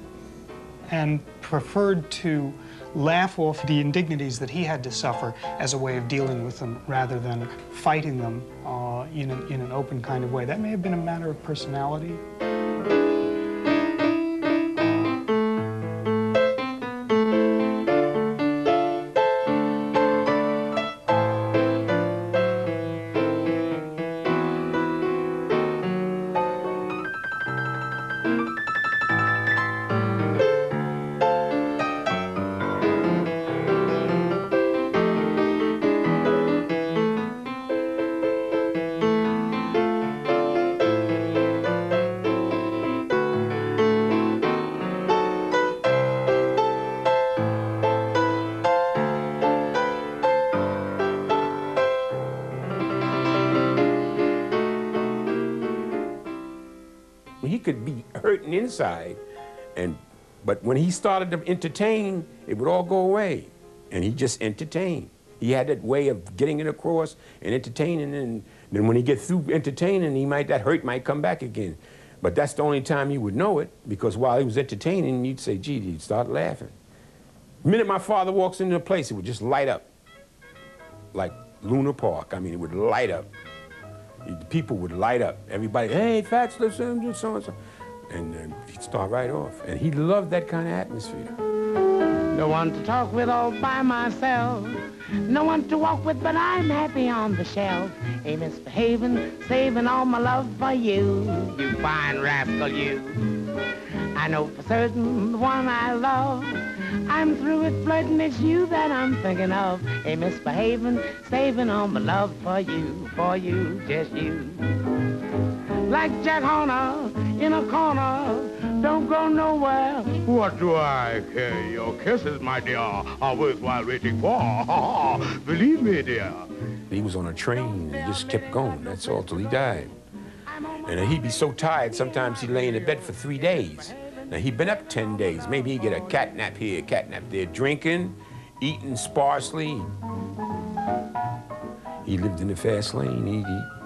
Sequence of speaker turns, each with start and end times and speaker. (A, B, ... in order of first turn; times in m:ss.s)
0:00.9-0:12.2 A
0:57.4-0:59.2 B
0:59.8-1:16.7 B
1:17.6-1:19.9 B
1:21.1-1:23.3 B
1:24.2-1:27.5 B
1:28.1-1:31.3 B
1:32.3-1:43.4 C
1:44.1-1:55.0 C
1:55.8-2:06.5 C
2:06.9-2:09.9 B
2:07.7-2:09.9 C
2:10.5-2:14.2 C
2:10.8-2:19.9 B
2:15.0-2:15.8 C
2:22.0-2:23.7 B